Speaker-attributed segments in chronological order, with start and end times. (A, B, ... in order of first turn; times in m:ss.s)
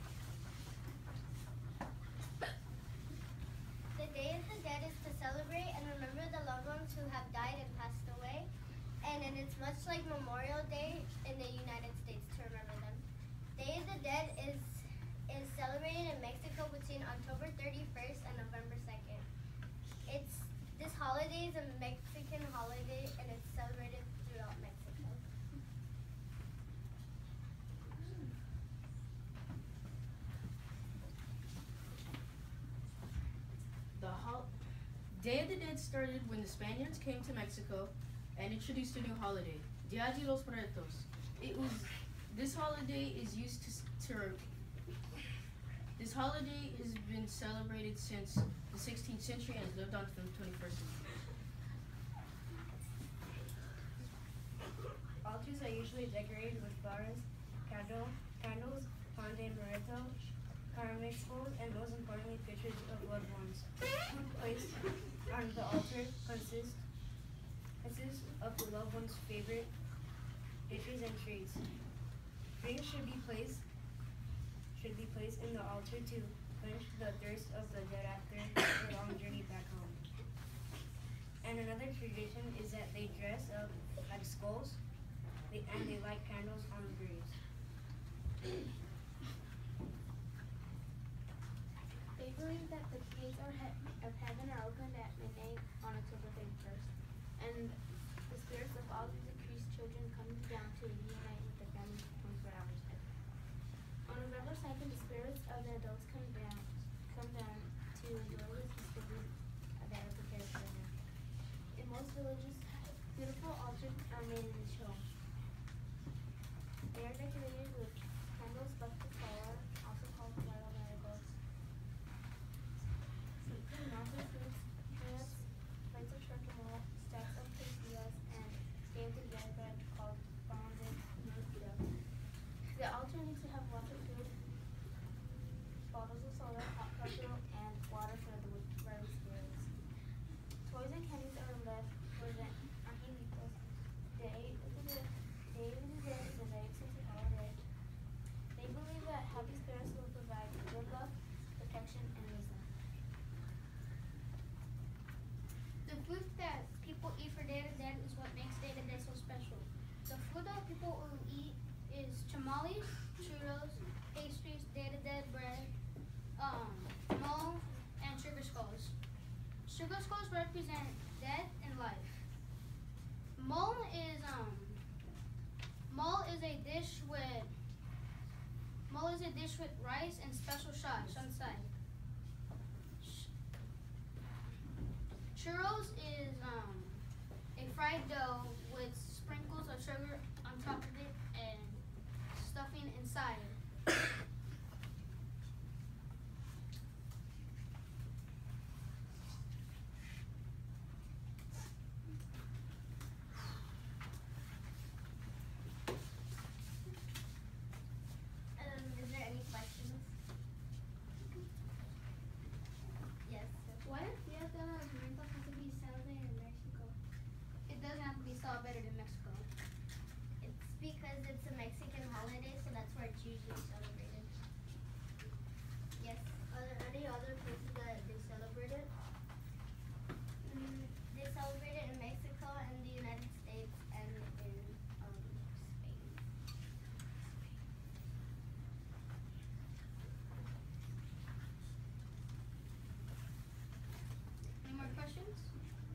0:04.0-0:08.5 A
0:09.0-0:13.0 A
0:13.6-0:19.2 A
0:20.1-0:25.2 A
0:34.0-0:34.5 B
0:35.1-0:44.4 B
0:46.0-0:51.0 B
0:55.2-1:00.2 C
1:00.7-1:06.8 C
1:07.8-1:09.7 C
1:10.7-1:11.6 C
1:12.6-1:13.6 C
1:14.7-1:20.0 C
1:21.4-1:24.8 C
1:25.5-1:27.4 C
1:32.1-1:43.5 D
1:44.0-1:51.0 D
1:51.7-1:55.1 D
1:56.9-2:01.4 D
2:03.4-2:14.5 D
2:15.9-2:19.7 D
2:20.6-2:27.8 D
2:28.5-2:32.8 D
2:35.8-2:45.7 E
2:46.4-2:49.0 E
2:49.6-2:52.3 E
2:53.4-2:54.8 E
2:55.9-2:57.5 E
2:58.9-3:01.7 E
3:03.0-3:03.3 E
3:05.3-3:07.0 E
3:07.6-3:13.6 E
3:28.6-3:30.1 A
3:33.2-3:33.8 A
3:33.8-3:35.6 E
3:36.1-3:36.9 A
3:37.7-3:39.5 E
3:40.4-3:44.3 A
3:46.0-3:48.9 A
3:50.4-3:56.2 A
4:04.6-4:05.5 E